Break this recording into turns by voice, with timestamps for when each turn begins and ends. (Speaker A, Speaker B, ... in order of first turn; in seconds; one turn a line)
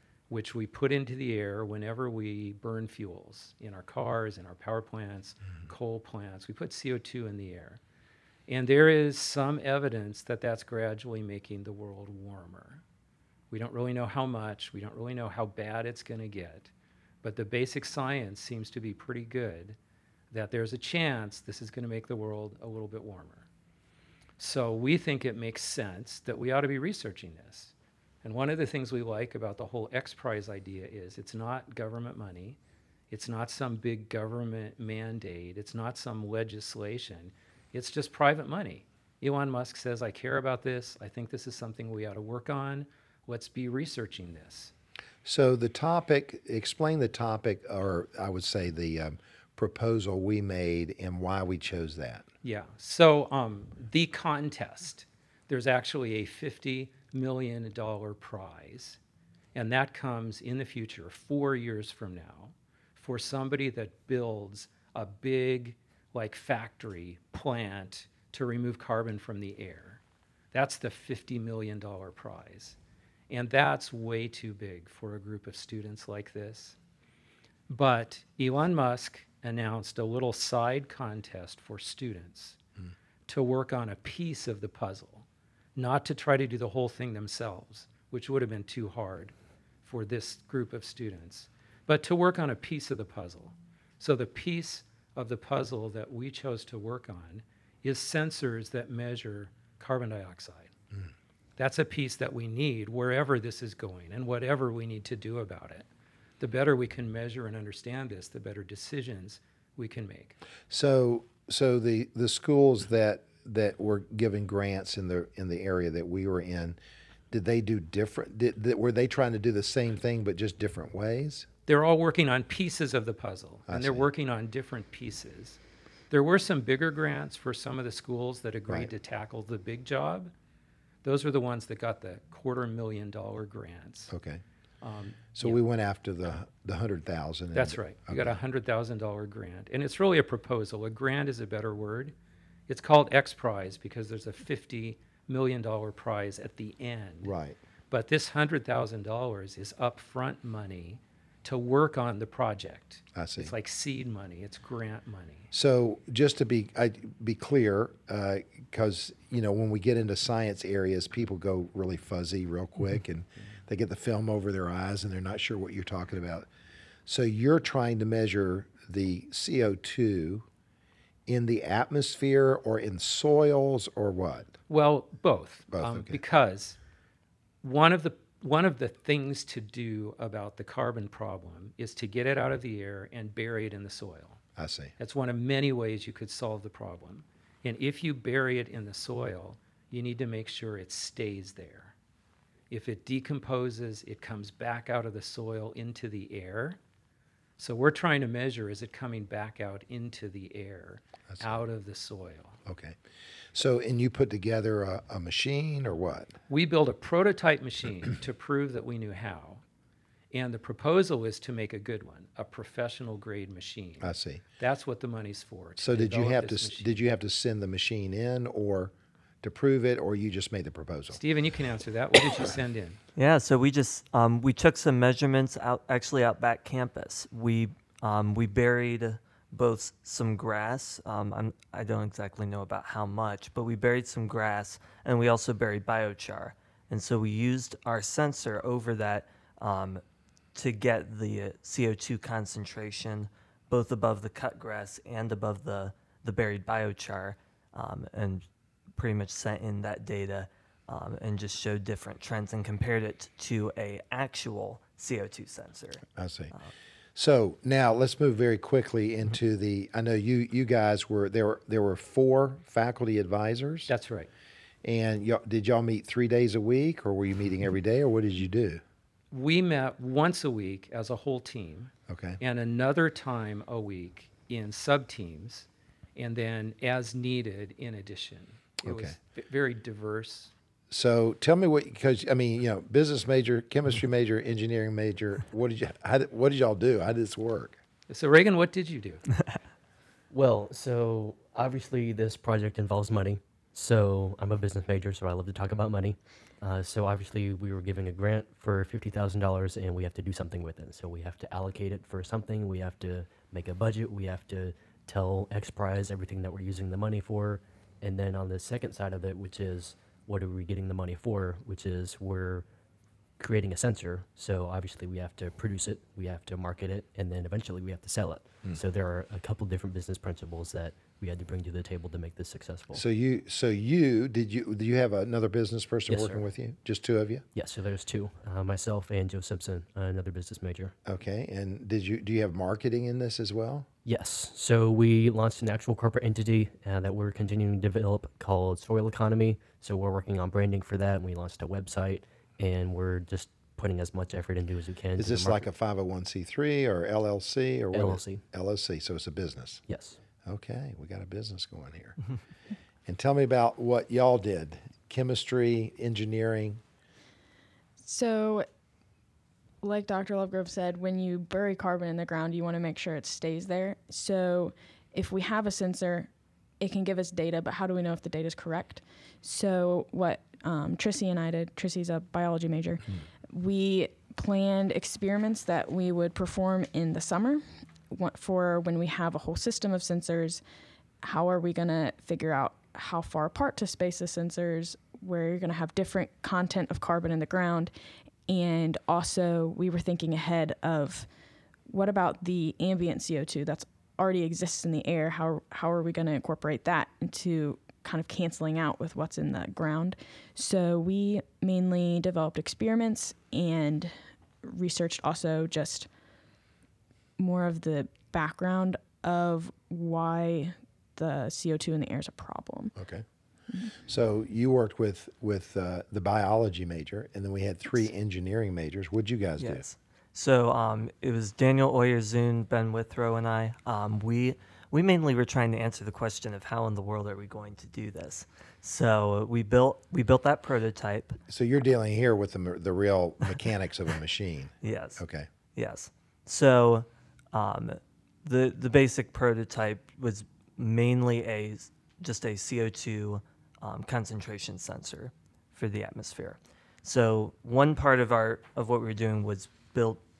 Speaker A: 0.3-7.8
Speaker A: 8.5-12.8
Speaker A: 13.5-16.7
Speaker A: 17.2-19.8
Speaker A: 20.3-23.5
Speaker A: 24.4-32.6
Speaker A: 33.1-44.7
Speaker B: 45.2-52.2
Speaker A: 52.4-59.0
Speaker A: 59.5-70.0
Speaker A: 70.5-72.8
Speaker A: 73.3-76.8
Speaker A: 77.7-82.6
Speaker A: 83.3-100.7
Speaker A: 101.6-105.9
Speaker A: 106.4-110.4
Speaker B: 110.7-116.8
Speaker B: 117.3-121.5
Speaker A: 121.7-125.6
Speaker B: 123.7-124.1
Speaker A: 126.1-130.3
Speaker A: 131.0-134.1
Speaker B: 134.1-134.4
Speaker A: 134.8-135.6
Speaker B: 135.3-138.4
Speaker A: 137.5-142.1
Speaker A: 142.7-147.3
Speaker B: 147.2-147.6
Speaker A: 147.9-155.5
Speaker B: 153.2-153.5
Speaker B: 155.5-166.5
Speaker B: 167.1-170.5
Speaker B: 171.3-174.5
Speaker A: 174.7-176.8
Speaker B: 175.7-176.2
Speaker A: 177.6-184.4
Speaker B: 184.6-184.9
Speaker A: 185.0-191.9
Speaker A: 192.7-196.8
Speaker A: 197.6-202.6
Speaker B: 201.3-201.6
Speaker B: 202.7-203.0
Speaker B: 203.5-206.3
Speaker A: 206.5-209.6
Speaker A: 210.3-217.0
Speaker B: 214.0-214.4
Speaker B: 215.8-221.2
Speaker A: 221.1-223.0
Speaker C: 223.2-240.0
Speaker C: 240.5-256.7
Speaker B: 256.1-256.5
Speaker B: 257.1-263.9
Speaker A: 263.9-264.3
Speaker B: 264.8-268.8
Speaker A: 269.3-280.5
Speaker B: 272.1-272.4
Speaker B: 278.9-279.1
Speaker B: 280.9-287.8
Speaker A: 288.1-289.2
Speaker D: 290.3-312.6
Speaker D: 313.4-323.0
Speaker B: 322.9-327.4
Speaker D: 326.1-326.4
Speaker D: 327.5-330.9
Speaker B: 331.1-333.9
Speaker D: 334.1-345.6
Speaker B: 345.2-349.8
Speaker D: 347.9-348.4
Speaker D: 349.9-350.2
Speaker B: 350.4-352.2
Speaker B: 353.1-356.8
Speaker E: 358.0-358.7
Speaker E: 359.8-380.6
Speaker E: 381.2-387.9
Speaker E: 388.5-391.3
Speaker E: 391.9-406.1
Speaker E: 407.4-412.9
Speaker B: 413.0-413.2
Speaker B: 413.9-419.8
Speaker C: 419.6-431.4
Speaker B: 431.5-435.5
Speaker C: 434.8-435.2
Speaker C: 435.8-450.2